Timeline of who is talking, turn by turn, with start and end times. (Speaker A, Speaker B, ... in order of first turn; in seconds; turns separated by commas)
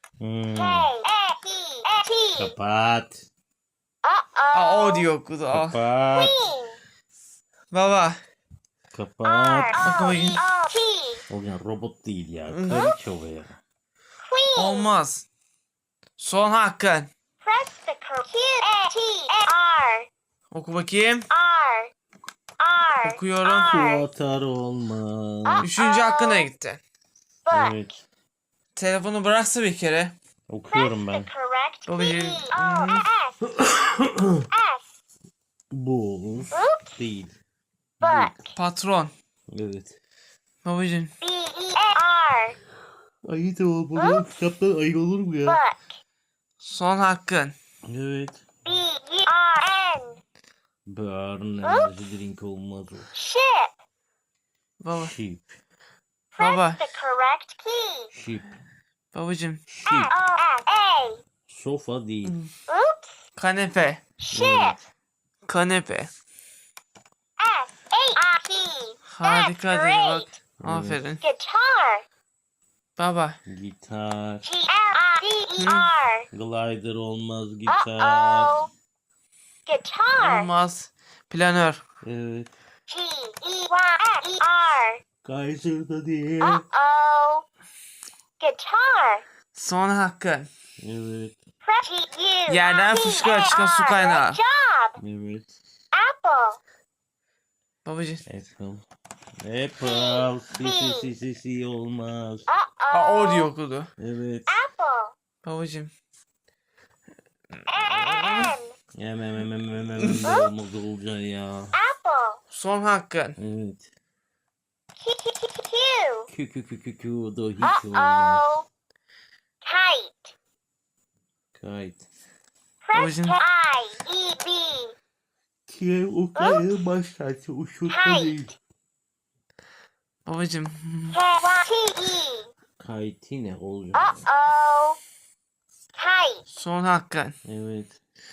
Speaker A: 0.2-0.9, Speaker B: 0.6-2.5, Speaker A: 2.4-3.2, Speaker B: 4.0-5.1, Speaker C: 4.5-5.8, Speaker A: 5.5-6.5, Speaker B: 6.1-6.8, Speaker C: 7.7-8.2, Speaker A: 8.9-10.0, Speaker B: 9.2-11.2, Speaker C: 9.8-10.4, Speaker A: 11.3-13.6, Speaker C: 12.5-12.9, Speaker B: 14.2-14.9, Speaker C: 14.6-15.3, Speaker C: 16.2-17.1, Speaker B: 17.4-20.1, Speaker C: 20.5-21.3, Speaker B: 21.3-21.9, Speaker B: 22.6-24.1, Speaker C: 23.0-23.7, Speaker A: 23.5-25.7, Speaker B: 25.4-26.5, Speaker C: 25.6-26.8, Speaker B: 27.5-27.8, Speaker A: 27.5-28.0, Speaker C: 28.8-30.1, Speaker A: 30.5-31.3, Speaker B: 30.7-33.4, Speaker C: 31.9-33.1, Speaker A: 33.5-34.5, Speaker B: 34.5-35.0, Speaker A: 35.7-37.4, Speaker B: 36.5-36.9, Speaker A: 38.0-38.5, Speaker B: 38.0-38.4, Speaker C: 38.5-39.1, Speaker A: 39.5-40.0, Speaker C: 40.6-41.1, Speaker B: 41.2-42.6, Speaker A: 43.2-45.6, Speaker B: 44.0-44.2, Speaker B: 45.5-45.8, Speaker C: 46.6-47.5, Speaker A: 47.9-48.4, Speaker B: 48.6-50.2, Speaker A: 50.9-53.1, Speaker B: 53.1-53.7, Speaker C: 54.8-55.1, Speaker A: 54.9-55.6, Speaker B: 56.3-58.1, Speaker C: 56.4-56.8, Speaker A: 58.1-58.5, Speaker C: 59.1-59.6, Speaker A: 59.7-60.1, Speaker B: 59.9-61.2, Speaker A: 61.5-62.4, Speaker C: 62.2-62.5, Speaker B: 62.7-63.2, Speaker C: 63.4-64.0, Speaker B: 64.2-64.8, Speaker A: 64.3-64.8, Speaker C: 65.5-66.1, Speaker B: 67.4-70.3, Speaker C: 69.1-71.2, Speaker A: 70.6-71.0, Speaker B: 71.2-72.0, Speaker C: 73.0-73.4, Speaker A: 73.5-74.5, Speaker B: 74.5-76.3, Speaker C: 75.6-75.9, Speaker A: 76.3-78.6, Speaker B: 77.7-78.7, Speaker B: 79.7-80.5, Speaker C: 80.2-81.8, Speaker A: 82.0-82.5, Speaker B: 82.9-85.0, Speaker A: 85.2-86.7, Speaker B: 86.4-87.5, Speaker B: 88.4-89.2, Speaker C: 89.5-90.5, Speaker A: 90.8-91.4, Speaker B: 91.6-95.0, Speaker C: 92.5-94.4, Speaker A: 95.0-95.6, Speaker B: 95.9-96.6, Speaker C: 97.8-98.2, Speaker A: 98.3-98.8, Speaker A: 99.4-102.5, Speaker B: 99.8-101.1, Speaker B: 102.5-103.5, Speaker C: 102.9-103.9, Speaker A: 104.0-104.6, Speaker B: 104.5-105.2, Speaker C: 105.4-105.9, Speaker B: 107.7-108.8, Speaker C: 107.9-108.5, Speaker A: 109.0-111.8, Speaker B: 110.2-110.5, Speaker B: 111.7-112.4, Speaker C: 112.5-113.4, Speaker A: 113.4-113.9, Speaker B: 115.0-116.3, Speaker A: 116.3-118.6, Speaker B: 117.6-118.7, Speaker B: 119.6-120.3, Speaker A: 121.5-122.1, Speaker B: 122.8-125.0, Speaker C: 122.9-123.4, Speaker A: 125.7-128.6, Speaker B: 126.4-126.6, Speaker B: 127.9-128.5, Speaker C: 130.3-131.2, Speaker B: 131.1-132.5, Speaker A: 132.8-134.3, Speaker B: 133.9-135.0, Speaker B: 136.0-136.4, Speaker C: 136.5-137.3, Speaker A: 137.4-138.0